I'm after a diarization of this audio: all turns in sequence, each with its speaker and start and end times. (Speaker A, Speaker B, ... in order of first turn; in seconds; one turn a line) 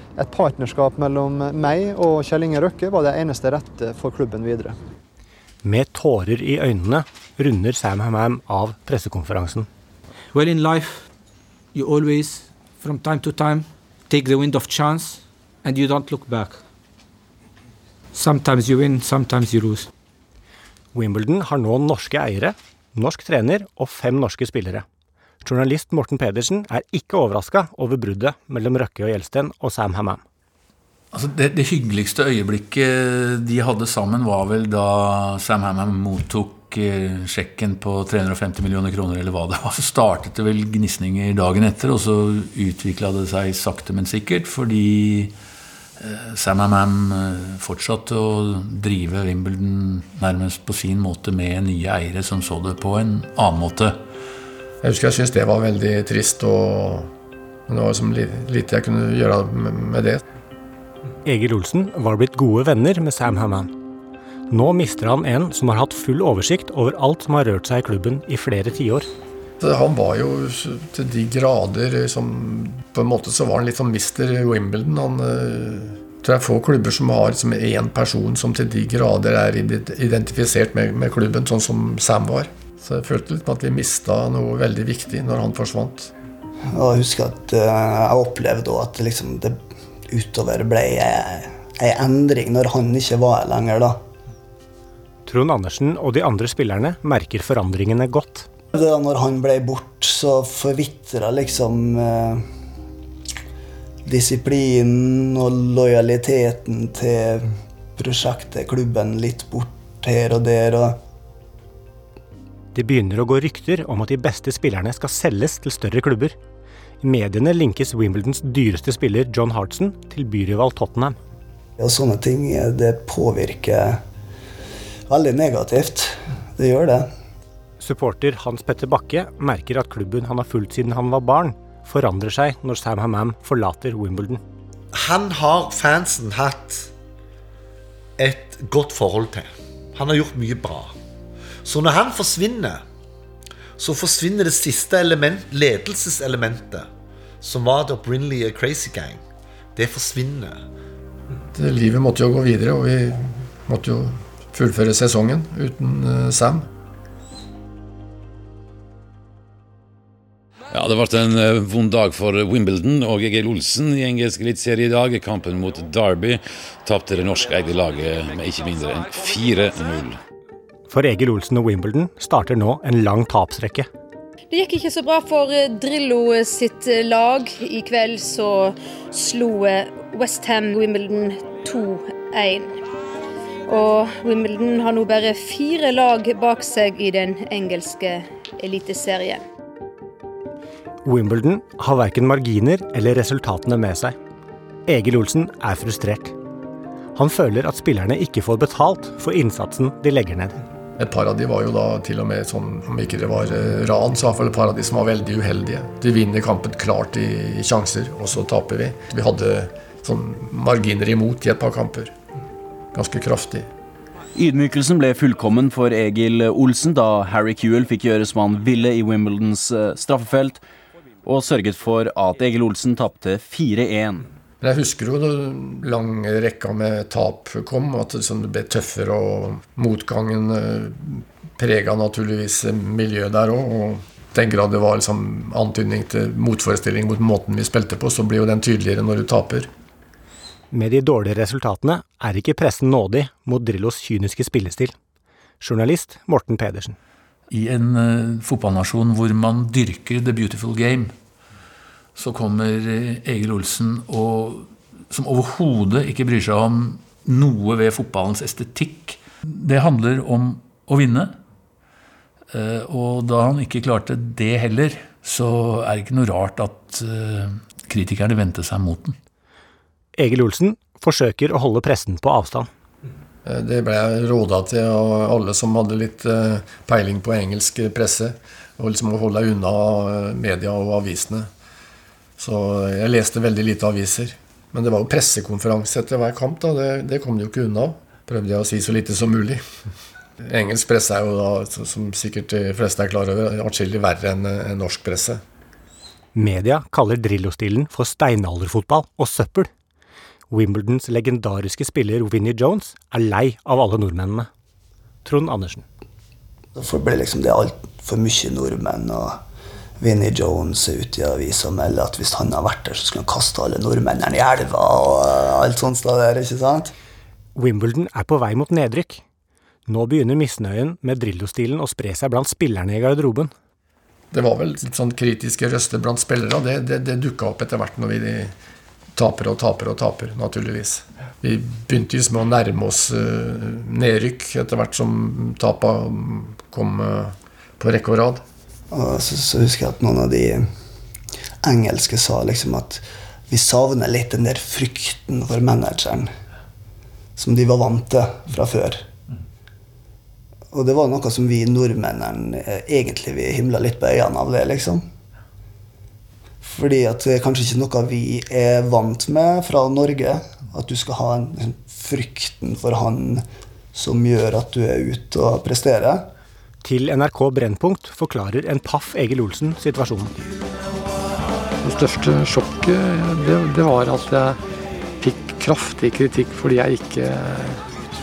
Speaker A: 0.1-4.8
Speaker B: 5.6-9.7
Speaker C: 10.3-11.0
Speaker C: 11.7-16.6
Speaker C: 18.1-19.9
Speaker B: 20.9-24.8
Speaker B: 25.4-30.2
Speaker D: 31.1-45.3
Speaker D: 46.0-54.0
Speaker E: 54.8-57.1
Speaker E: 57.7-60.2
Speaker B: 61.2-63.7
Speaker B: 64.5-69.1
Speaker E: 69.6-86.1
Speaker F: 86.6-94.0
Speaker B: 95.2-98.5
Speaker F: 98.7-102.5
Speaker F: 104.0-111.0
Speaker B: 112.8-116.4
Speaker B: 117.0-121.2
Speaker F: 121.8-124.0
Speaker F: 125.1-127.1
Speaker B: 127.8-134.4
Speaker G: 134.9-136.9
Speaker G: 138.2-140.9
Speaker G: 141.6-142.8
Speaker G: 143.8-146.9
Speaker G: 147.4-149.2
Speaker G: 149.8-150.6
Speaker E: 151.5-156.7
Speaker H: 160.7-170.2
Speaker B: 170.9-173.9
Speaker I: 174.5-182.8
Speaker I: 183.7-189.4
Speaker B: 191.0-194.1
Speaker B: 194.9-196.4
Speaker B: 197.1-200.6
Speaker E: 201.0-212.1
Speaker E: 212.9-213.7
Speaker J: 214.3-220.6
Speaker J: 221.2-224.2
Speaker E: 224.6-239.7
Speaker B: 240.7-244.9
Speaker B: 245.6-247.0
Speaker D: 247.5-251.1
Speaker D: 252.1-261.4
Speaker D: 262.5-269.1
Speaker B: 270.2-272.7
Speaker E: 273.4-281.5
Speaker E: 282.4-289.6
Speaker E: 290.4-295.4
Speaker B: 296.3-299.7
Speaker B: 300.5-304.5
Speaker B: 305.2-305.8
Speaker F: 306.8-309.4
Speaker F: 310.0-316.9
Speaker B: 317.6-319.2
Speaker B: 319.9-323.5
Speaker E: 324.3-328.5
Speaker E: 329.1-338.4
Speaker F: 338.9-340.7
Speaker F: 341.6-346.3
Speaker F: 347.4-349.1
Speaker F: 350.7-355.1
Speaker F: 356.6-366.3
Speaker B: 366.8-370.4
Speaker K: 371.8-374.6
Speaker K: 375.2-377.9